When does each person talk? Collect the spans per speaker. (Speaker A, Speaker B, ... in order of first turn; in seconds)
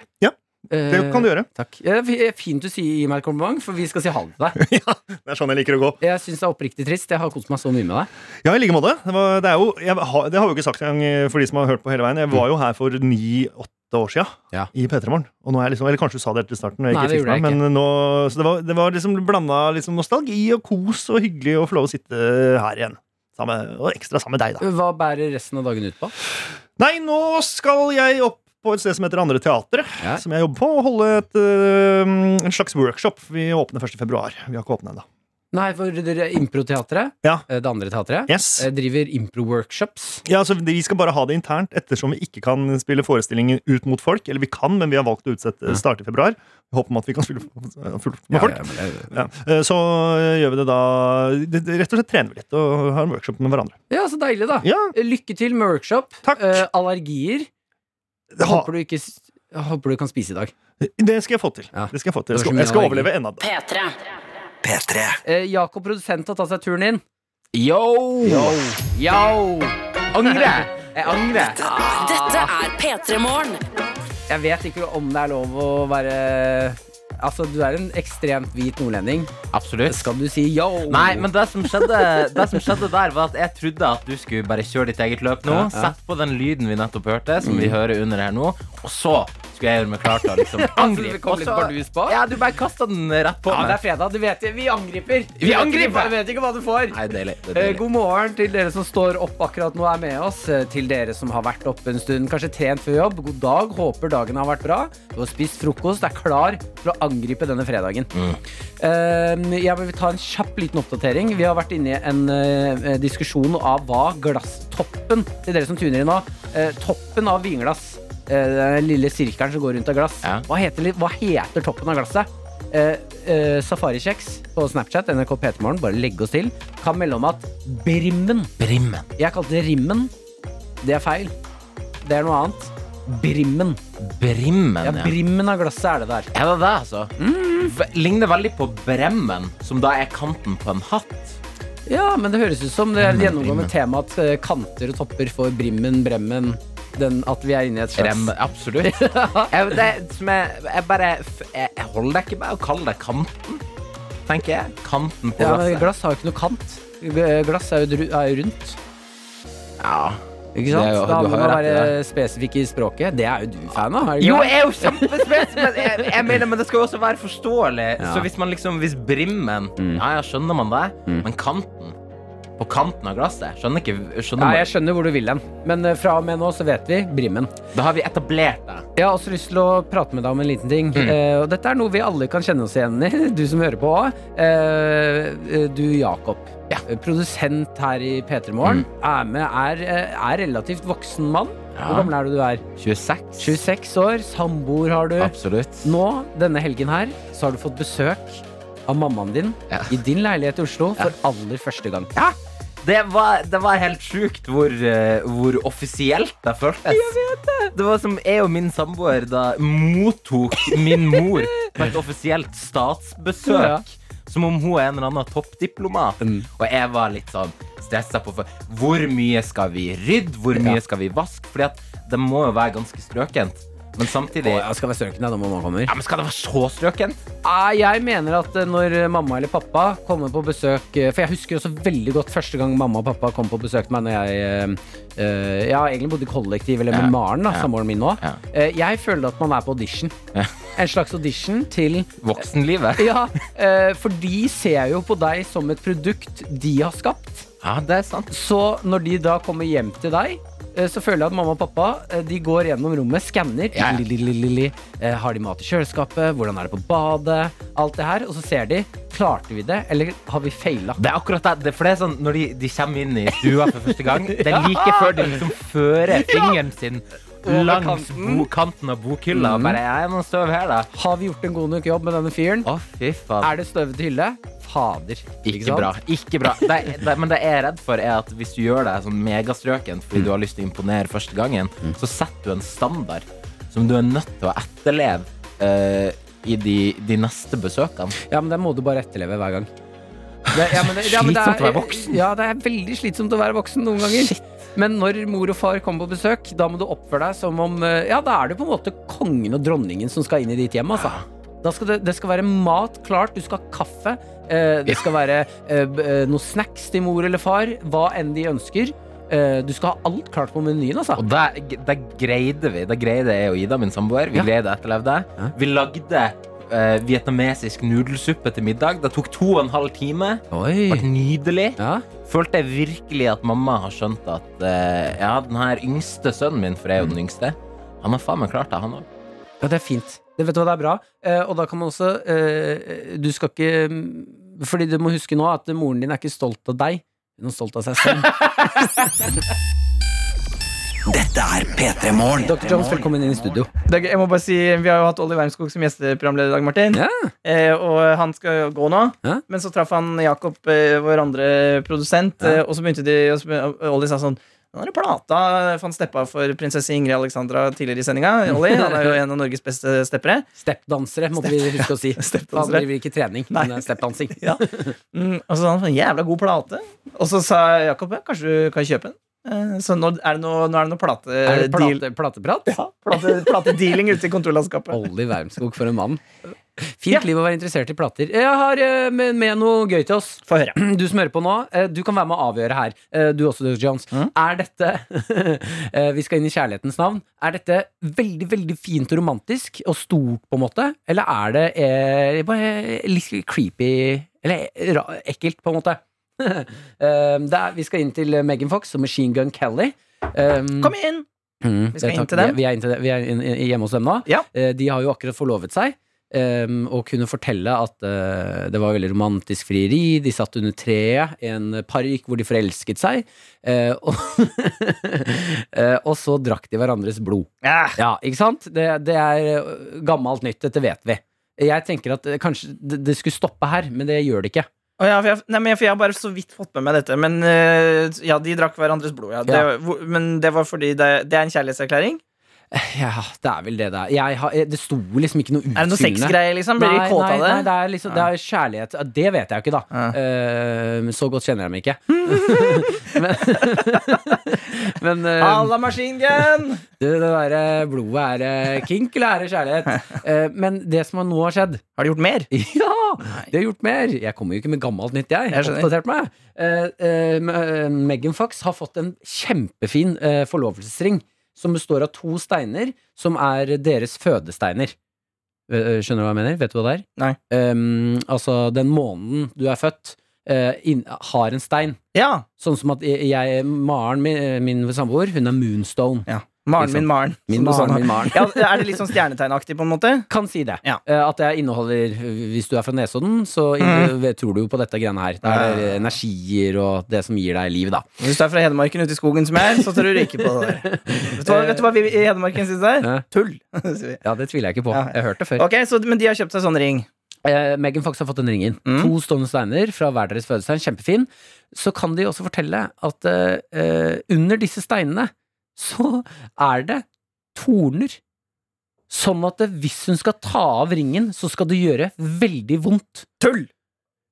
Speaker A: 0.2-1.5, 4.6-6.0, 8.4-24.6, 26.8-35.0, 38.3-38.7, 40.2-53.8, 54.6-54.9, 56.2-56.6, 58.3-58.7, 60.8-63.4
Speaker B: 0.7-4.6, 6.0-8.1, 16.9-17.6, 24.6-26.1, 35.5-40.2, 48.3-49.1, 53.9-57.5, 58.4-60.5, 61.7-63.1, 65.2-67.0, 68.2-69.8, 71.5-72.5, 74.3-79.3, 79.9-82.4, 85.5-85.9, 87.4-87.8, 90.3-92.2, 93.5-97.0, 97.5-108.1, 108.8-128.5, 129.2-130.1, 130.8-131.3, 132.0-133.8, 134.8-136.3, 137.2-137.7, 141.9-149.6, 155.4-158.8, 160.5-166.1, 168.0-168.3, 169.8-170.0, 174.4-177.5, 178.9-192.7, 193.4-202.1, 206.9-207.7, 213.4-213.8, 216.2-216.5, 224.4-225.9, 227.4-240.2, 240.8-242.4, 243.0-247.5, 248.3-261.0, 264.4-265.4, 267.4-268.5, 269.3-269.8, 270.9-272.7, 273.4-275.9, 288.3-289.7, 290.5-311.2, 320.5-321.0, 321.8-322.1, 329.6-339.1, 342.4-343.7, 346.9-347.3, 358.5-359.2, 360.6-364.9, 371.4-372.7, 374.9-400.9, 401.6-424.7, 432.7-445.7, 447.0-451.8, 452.5-464.9, 465.7-472.0, 472.6-476.3, 476.8-478.6, 480.3-488.1, 490.8-491.8, 494.2-495.6, 497.4-508.2, 509.1-513.3
Speaker C: 63.4-63.9, 71.8-73.6
Speaker D: 64.6-65.2, 341.1-343.6
Speaker E: 67.5-68.6, 70.1-71.6, 79.5-80.1, 80.9-93.8, 95.4-96.2, 96.9-97.8, 108.1-108.4, 128.6-129.1, 134.0-135.1, 136.3-141.4, 143.0-143.7, 147.9-148.9, 149.5-153.6, 154.3-155.9, 159.8-161.9, 164.2-171.9, 172.6-174.7, 177.7-178.8, 191.7-192.1, 192.8-193.5, 195.2-195.9, 202.1-207.2, 207.7-224.7, 225.9-227.2, 236.9-237.7, 242.2-243.1, 247.6-248.3, 253.7-254.0, 261.0-270.9, 272.6-273.5, 275.4-288.1, 290.6-292.2, 294.0-294.4, 300.9-301.2, 311.1-329.1
Speaker F: 343.9-360.4, 361.5-362.8, 363.5-364.6, 365.1-372.0, 372.7-375.0, 380.5-380.8, 400.8-401.2, 401.9-402.6, 417.6-418.0, 425.0-432.2, 435.8-438.3, 442.1-444.2, 445.4-446.8, 452.0-452.5, 455.5-455.9, 472.1-472.4, 476.3-480.3, 483.8-484.1, 485.4-486.0, 488.2-494.2, 494.9-497.1, 498.9-499.1, 513.4-513.7